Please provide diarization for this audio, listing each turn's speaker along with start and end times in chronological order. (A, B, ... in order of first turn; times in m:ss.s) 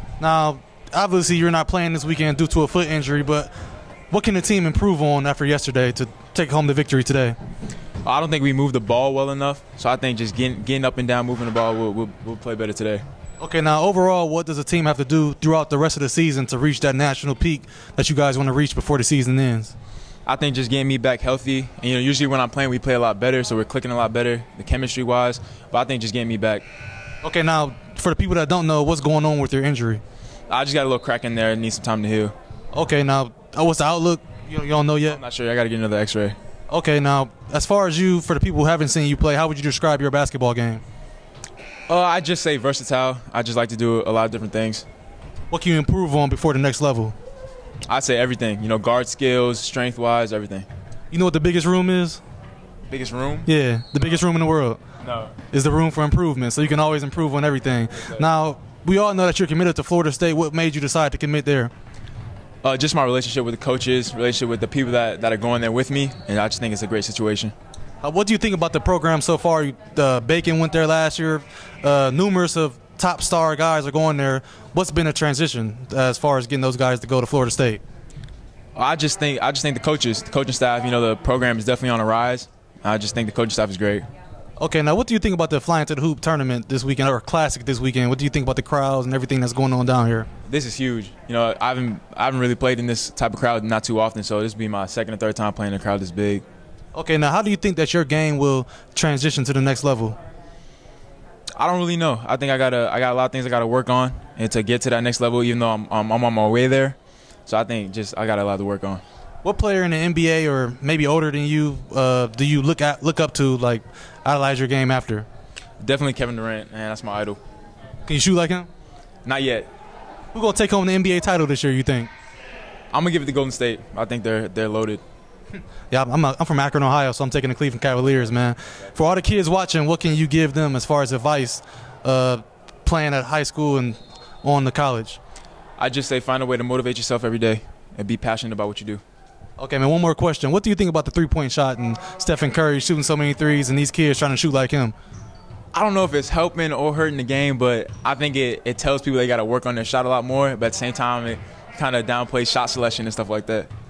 0:00.2-0:03.5 A
0:04.1-0:07.4 A
0:08.0-0:13.0 B
0:13.4-0:19.8 A
0:20.3-0:26.6 B
0:27.2-0:30.0 A
0:30.5-0:32.3 B
0:32.7-0:35.2 A
0:35.1-0:36.4 B
0:36.7-0:40.8 A
0:41.9-0:44.9 B
0:45.5-0:47.2 A
0:47.8-0:50.7 B
0:51.1-0:52.2 A
0:52.9-0:53.5 B
0:53.5-0:54.8 A
0:55.0-0:55.4 B
0:55.5-1:01.7 A
1:02.6-1:07.5 B
1:08.0-1:17.8 A
1:18.8-1:24.1 B
1:24.6-1:30.3 A
1:30.4-1:36.4 B
1:37.0-1:40.2 A
1:41.6-1:49.0 B
1:49.4-1:55.3 A
1:55.8-1:57.4 B
1:58.1-1:58.7 A
1:59.2-1:59.7 B
2:00.3-2:02.1 A
2:02.9-2:05.0 B
2:05.9-2:15.2 A
2:15.8-2:19.0 B
2:19.6-2:25.0 A
2:25.7-2:33.7 B